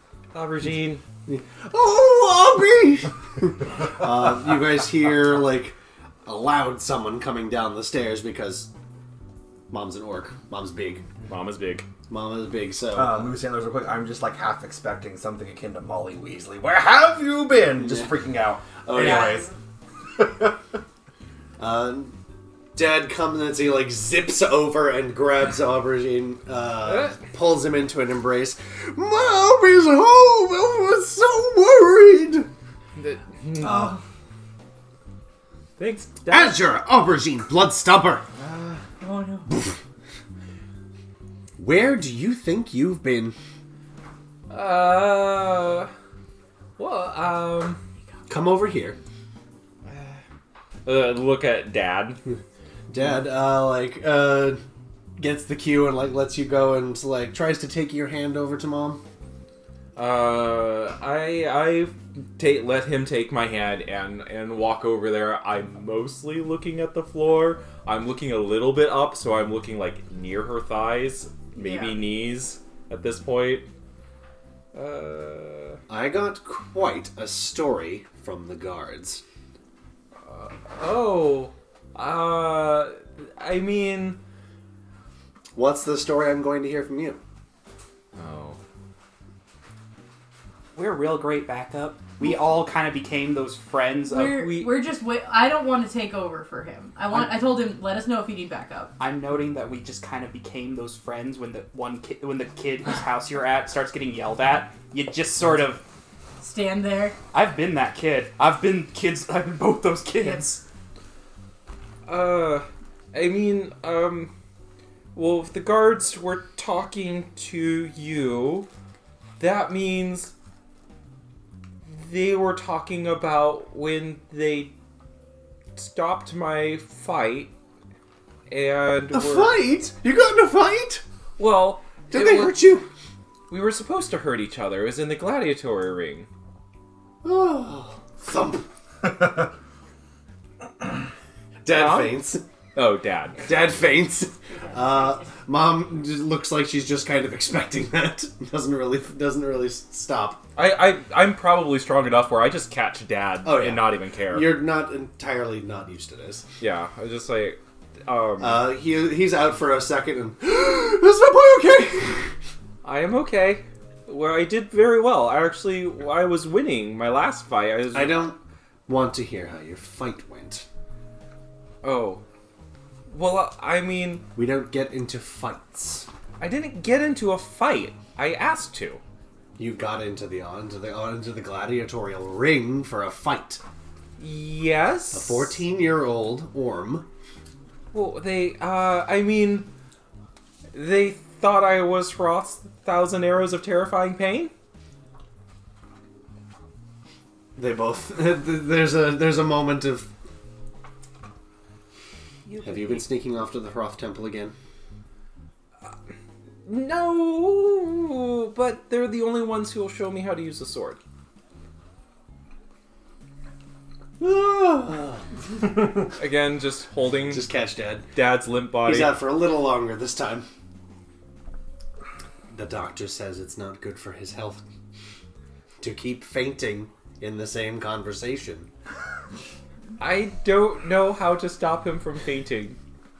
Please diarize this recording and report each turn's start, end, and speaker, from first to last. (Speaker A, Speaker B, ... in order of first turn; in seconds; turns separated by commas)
Speaker A: 0.3-1.0, Speaker B: 1.2-8.7, Speaker B: 9.7-11.1, Speaker A: 11.2-11.8, Speaker B: 12.1-13.3, Speaker C: 12.9-19.3, Speaker B: 17.8-18.1, Speaker B: 18.9-19.5, Speaker D: 19.0-19.4, Speaker C: 20.2-20.6, Speaker B: 21.6-22.2, Speaker B: 22.7-32.5, Speaker A: 33.0-34.0, Speaker A: 35.8-36.6, Speaker B: 36.3-38.3, Speaker A: 38.4-38.8, Speaker D: 39.0-39.5, Speaker B: 39.5-39.8, Speaker B: 41.6-43.4, Speaker A: 44.5-45.9, Speaker A: 46.8-47.8, Speaker B: 48.3-49.0, Speaker A: 49.9-50.2, Speaker A: 50.8-52.2, Speaker B: 52.2-54.6, Speaker B: 55.2-59.0, Speaker A: 60.0-73.7, Speaker D: 71.5-72.0, Speaker A: 74.7-75.8, Speaker B: 75.9-79.2, Speaker A: 80.2-84.2, Speaker B: 85.5-87.2, Speaker A: 88.2-88.6, Speaker E: 90.7-94.4, Speaker D: 94.1-98.9, Speaker A: 94.3-94.8, Speaker E: 99.0-105.8, Speaker D: 106.4-107.2, Speaker E: 107.3-110.6, Speaker A: 112.0-114.3, Speaker A: 115.1-118.7, Speaker A: 119.4-120.3, Speaker A: 121.9-124.7, Speaker A: 125.7-127.5, Speaker A: 128.5-129.6, Speaker B: 129.1-131.0, Speaker A: 131.4-132.7, Speaker B: 132.1-132.9, Speaker A: 133.5-136.3, Speaker B: 137.2-139.2, Speaker B: 141.6-142.4, Speaker A: 141.7-142.2, Speaker A: 142.7-143.5, Speaker B: 143.4-150.4, Speaker D: 144.5-145.3, Speaker A: 150.6-154.6, Speaker B: 153.4-156.4, Speaker A: 156.6-158.7, Speaker B: 158.4-162.3, Speaker A: 162.8-168.3, Speaker B: 167.9-170.7, Speaker A: 171.8-172.2, Speaker A: 173.1-174.2, Speaker B: 174.3-176.1, Speaker A: 176.4-179.0, Speaker B: 179.6-183.6, Speaker A: 184.2-185.6, Speaker B: 185.1-187.1, Speaker A: 187.9-189.7, Speaker A: 190.7-194.5, Speaker B: 197.6-200.1, Speaker E: 202.5-203.1, Speaker B: 202.6-204.5, Speaker A: 206.6-211.0, Speaker B: 214.2-216.1, Speaker A: 216.2-217.4, Speaker B: 217.3-218.1, Speaker A: 218.1-219.2, Speaker B: 218.8-220.5, Speaker B: 222.5-224.6, Speaker B: 225.8-228.7, Speaker A: 230.0-232.8